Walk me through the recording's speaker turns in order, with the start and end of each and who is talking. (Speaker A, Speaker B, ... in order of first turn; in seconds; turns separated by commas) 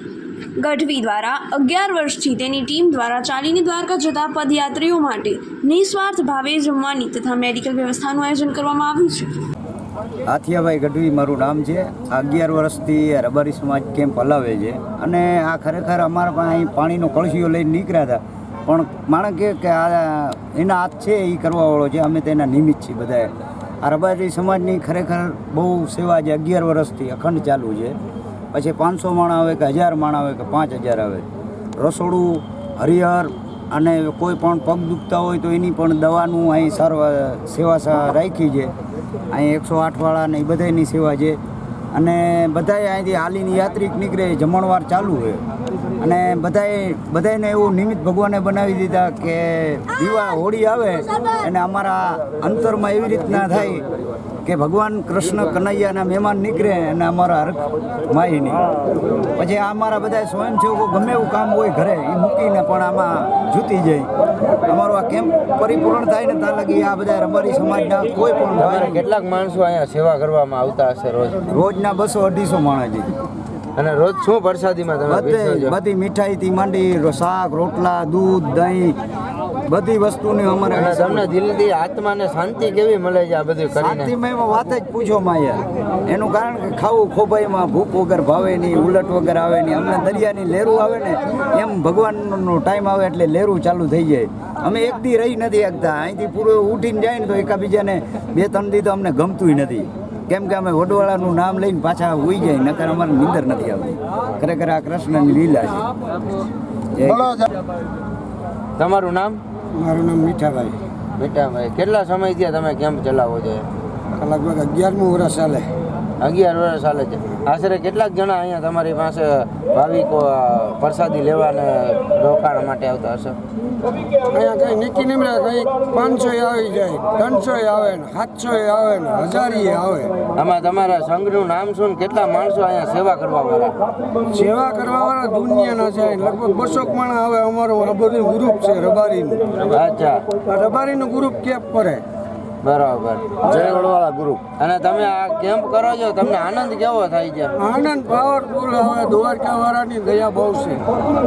Speaker A: 0.6-9.3, Speaker B: 10.2-28.0, Speaker B: 28.5-31.2, Speaker B: 31.8-38.7, Speaker B: 39.3-41.4, Speaker B: 41.9-45.4, Speaker B: 46.0-53.8, Speaker B: 54.4-58.6, Speaker B: 59.3-64.1, Speaker B: 64.7-69.0, Speaker C: 68.6-71.5, Speaker B: 71.5-73.1, Speaker C: 73.8-75.7, Speaker B: 75.1-79.0, Speaker B: 79.7-81.3, Speaker C: 80.7-84.1, Speaker B: 83.8-105.9, Speaker B: 106.9-107.4, Speaker C: 108.8-109.4, Speaker D: 109.7-110.8, Speaker C: 111.2-113.7, Speaker D: 114.2-115.7, Speaker C: 116.2-123.4, Speaker D: 124.3-130.2, Speaker C: 130.3-133.7, Speaker D: 134.2-139.4, Speaker C: 139.6-140.2, Speaker D: 140.4-142.0, Speaker C: 142.6-147.5, Speaker D: 147.6-150.9